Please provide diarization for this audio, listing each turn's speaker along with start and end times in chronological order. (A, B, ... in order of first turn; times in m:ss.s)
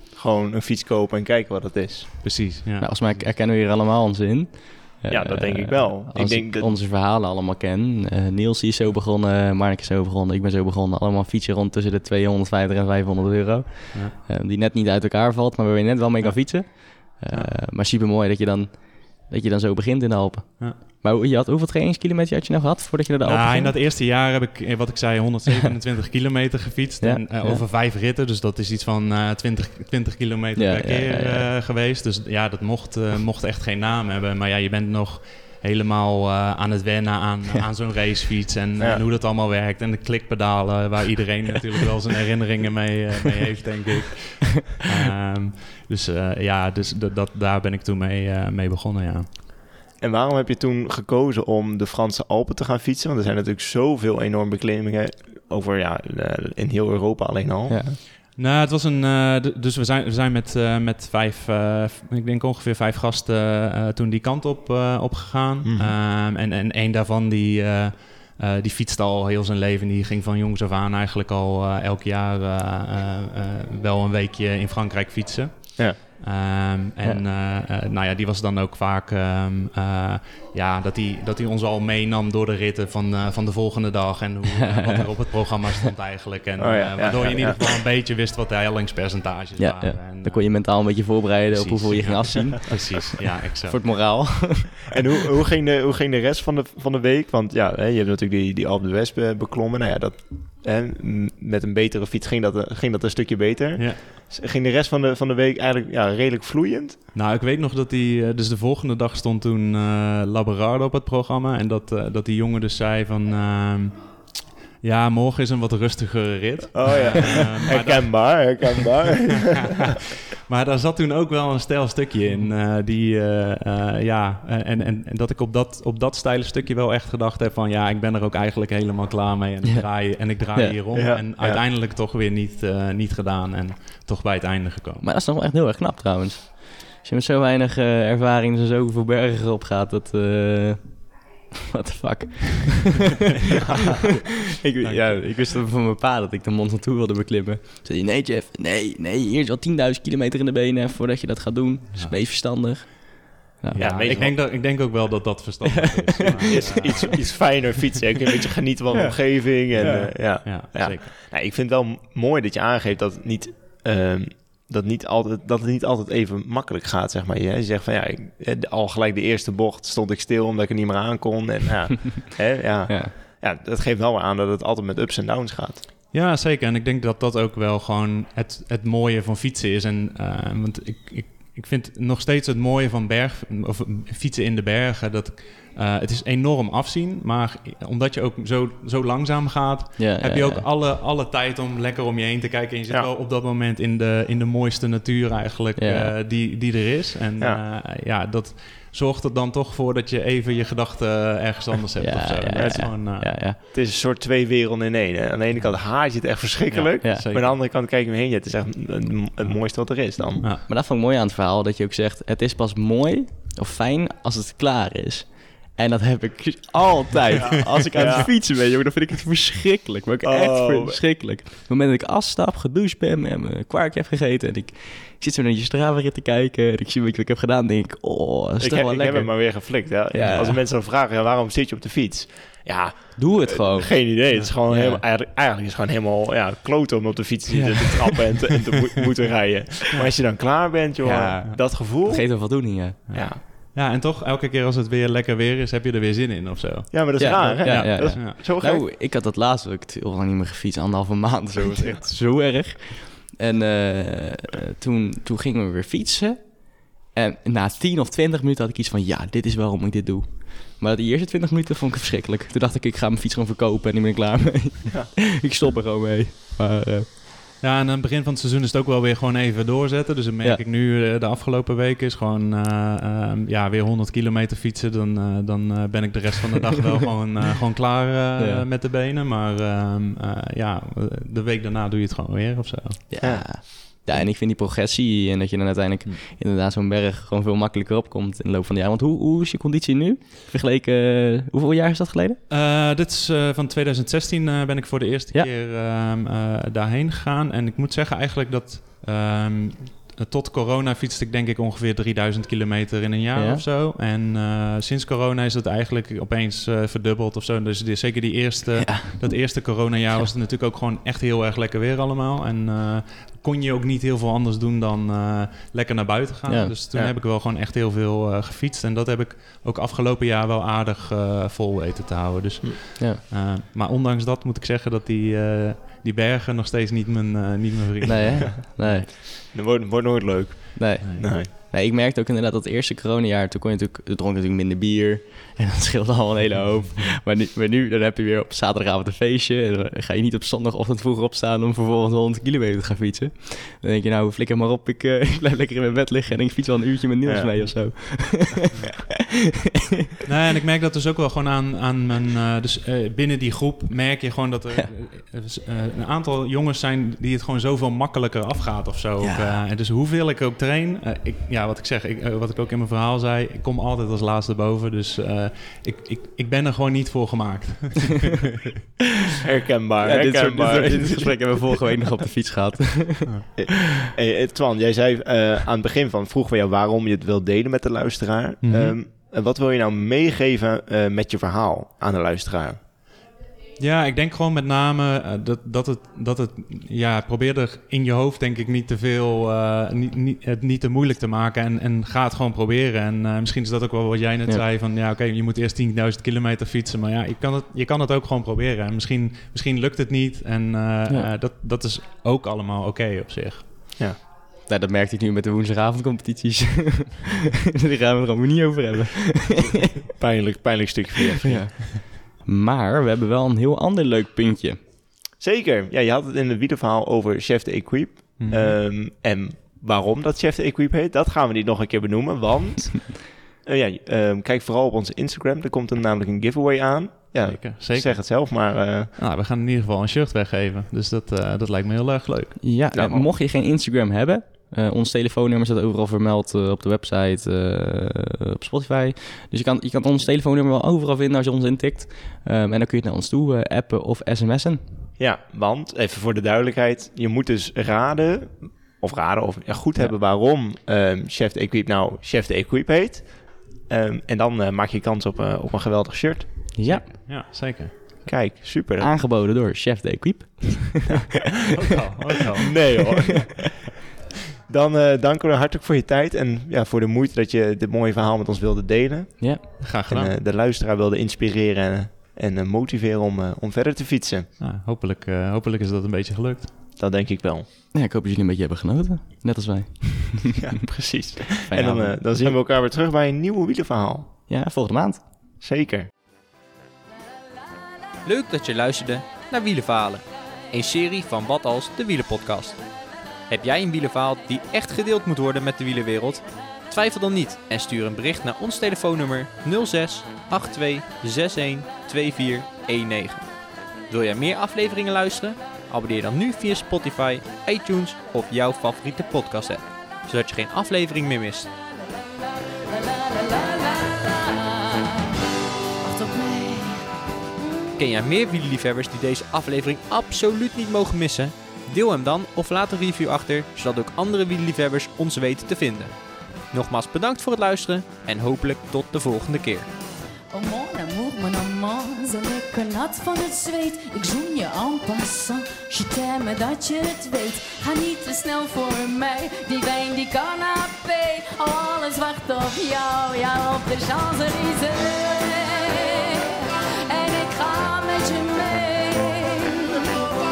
0:00.1-0:02.1 A
0:02.2-0:03.2 B
0:02.8-0:23.8 C
0:05.1-0:06.7 A
0:23.2-0:49.3 B
0:27.0-0:27.6 C
0:30.6-0:31.5 C
0:50.0-0:58.0 A
0:57.7-0:58.0 C
0:58.4-1:33.8 B
1:05.6-1:05.9 A
1:24.6-1:25.2 C
1:26.6-1:27.6 A
1:29.6-1:32.9 C
1:33.7-1:34.9 C
1:34.9-1:47.0 A
1:43.8-1:44.0 B
1:47.1-1:54.1 B
1:54.8-2:15.1 B
1:56.7-1:59.7 A
2:10.9-2:11.6 A
2:15.0-2:23.1 C
2:23.6-2:24.1 A
2:24.6-2:33.9 C
2:24.8-2:25.3 B
2:33.7-2:37.1 B
2:33.8-2:34.4 A
2:35.8-2:36.9 C
2:36.5-2:55.8 A
2:38.9-2:40.1 C
2:39.7-2:41.1 B
2:52.9-2:53.1 C
2:56.1-3:23.5 B
3:10.0-3:10.6 C
3:15.8-3:16.2 C
3:22.0-3:23.6 C
3:22.6-3:22.9 A
3:23.6-3:30.5 A
3:26.7-3:27.6 B
3:30.4-3:30.7 B
3:30.7-3:50.6 C
3:37.4-3:38.3 A
3:40.2-3:41.0 A
3:48.6-4:02.5 A
3:53.2-3:55.0 C
4:01.0-4:03.0 C
4:03.1-4:08.4 B
4:03.1-4:03.4 A
4:06.9-4:08.8 A
4:07.2-4:27.1 C
4:27.6-4:43.0 B
4:38.4-4:38.7 C
4:43.1-4:52.4 C
4:43.2-4:44.3 A
4:52.5-5:28.7 B
5:03.4-5:03.6 C
5:08.8-5:09.4 C
5:16.5-5:16.8 C
5:28.1-5:29.1 C
5:29.3-5:31.5 A
5:30.8-5:48.9 C
5:31.0-5:31.3 B
5:47.2-5:47.8 A
5:50.2-6:08.5 B
5:59.2-5:59.6 C
6:09.4-6:11.6 A
6:10.0-6:13.3 C
6:13.6-6:22.8 A
6:18.6-6:19.0 B
6:23.8-6:43.7 B
6:44.7-6:49.9 C
6:50.2-6:51.9 A
6:51.4-6:54.8 C
6:55.4-7:09.1 A
6:58.4-6:58.8 B
7:07.4-7:08.6 B
7:09.2-7:12.6 B
7:12.6-7:24.8 C
7:12.9-7:13.3 A
7:25.2-7:36.7 A
7:36.8-7:37.2 C
7:36.9-7:37.9 B
7:38.2-7:39.1 A
7:39.0-7:41.2 C
7:41.1-7:41.4 A
7:41.7-7:42.9 B
7:42.6-7:43.8 A
7:44.7-7:54.5 A
7:49.4-7:49.6 C
7:49.8-7:50.3 B
7:54.6-7:56.7 B
7:57.0-7:57.7 A
7:57.9-8:00.6 C
8:00.6-8:04.3 A
8:01.6-8:02.6 C
8:04.5-8:05.2 C
8:05.6-8:06.1 A
8:08.2-8:12.8 D
8:13.5-8:23.4 D
8:24.1-8:31.7 D
8:32.9-8:35.4 E
8:36.0-8:37.0 E
8:37.6-8:38.2 E
8:38.0-8:46.1 D
8:46.7-8:49.9 D
8:50.5-9:10.3 E